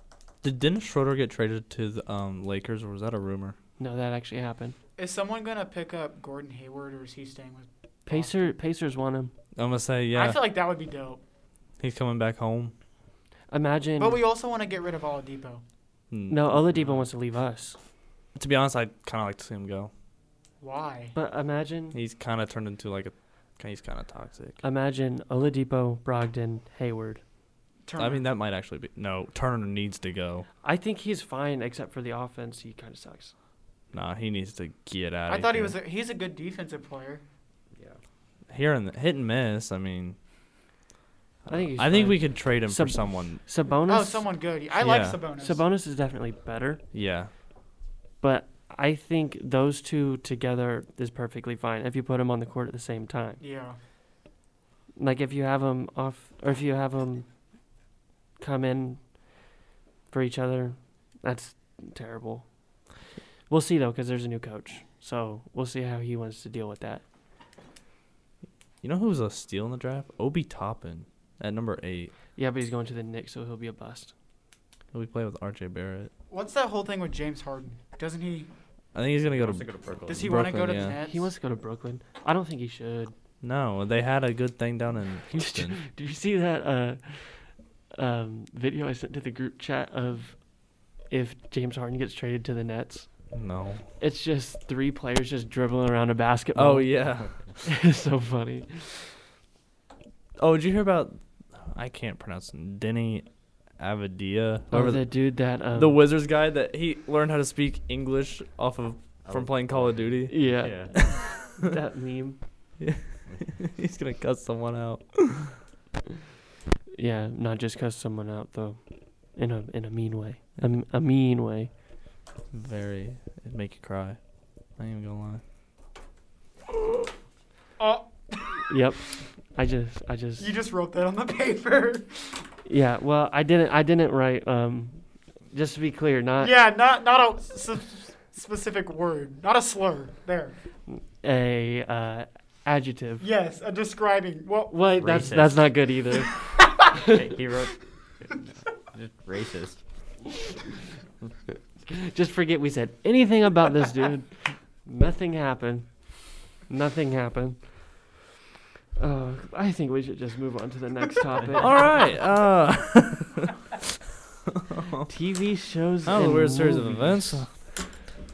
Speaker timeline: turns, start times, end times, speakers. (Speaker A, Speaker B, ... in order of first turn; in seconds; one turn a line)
Speaker A: 0.4-3.6
Speaker B: 3.8-4.8
Speaker C: 5.0-8.3
Speaker B: 8.1-9.3
Speaker A: 9.6-10.4
Speaker C: 10.1-11.2
Speaker A: 11.8-12.7
Speaker B: 13.5-14.2
Speaker C: 14.0-15.6
Speaker A: 16.1-16.8
Speaker B: 16.3-17.8
Speaker A: 18.4-19.9
Speaker C: 20.6-21.1
Speaker B: 21.1-22.0
Speaker A: 21.9-24.6
Speaker B: 24.6-27.2
Speaker C: 27.9-28.2
Speaker A: 28.0-30.5
Speaker B: 30.6-33.3
Speaker A: 33.9-35.8
Speaker C: 35.3-37.2
Speaker A: 38.5-40.2
Speaker A: 41.5-43.4
Speaker B: 41.5-44.3
Speaker C: 43.9-45.6
Speaker A: 44.7-45.2
Speaker B: 45.4-46.8
Speaker A: 46.9-47.3
Speaker B: 48.2-53.4
Speaker C: 53.4-53.8
Speaker B: 55.0-57.3
Speaker B: 58.4-59.3
Speaker B: 60.1-62.5
Speaker B: 63.5-67.0
Speaker A: 68.8-72.1
Speaker B: 72.4-74.1
Speaker A: 74.9-76.1
Speaker C: 76.3-78.5
Speaker A: 78.9-81.0
Speaker D: 79.3-80.3
Speaker C: 80.1-81.3
Speaker B: 81.0-83.1
Speaker A: 83.4-85.8
Speaker B: 85.3-93.2
Speaker A: 93.3-93.9
Speaker B: 94.0-99.1
Speaker A: 96.5-97.6
Speaker A: 100.4-111.3
Speaker B: 104.7-106.0
Speaker D: 109.2-110.9
Speaker B: 110.3-112.4
Speaker A: 112.8-115.6
Speaker D: 113.3-113.5
Speaker B: 116.9-121.7
Speaker A: 122.5-124.2
Speaker A: 124.8-125.4
Speaker C: 127.8-128.7
Speaker B: 128.7-130.5
Speaker C: 130.4-132.5
Speaker B: 132.7-136.5
Speaker C: 136.4-140.5
Speaker B: 140.9-143.3
Speaker C: 143.2-144.8
Speaker B: 144.7-147.1
Speaker D: 145.0-145.8
Speaker C: 146.6-147.1
Speaker D: 146.8-149.8
Speaker B: 151.9-156.1
Speaker B: 156.7-158.1
Speaker B: 159.0-162.0
Speaker A: 161.5-163.5
Speaker A: 164.6-165.1
Speaker B: 165.1-167.4
Speaker A: 166.1-167.5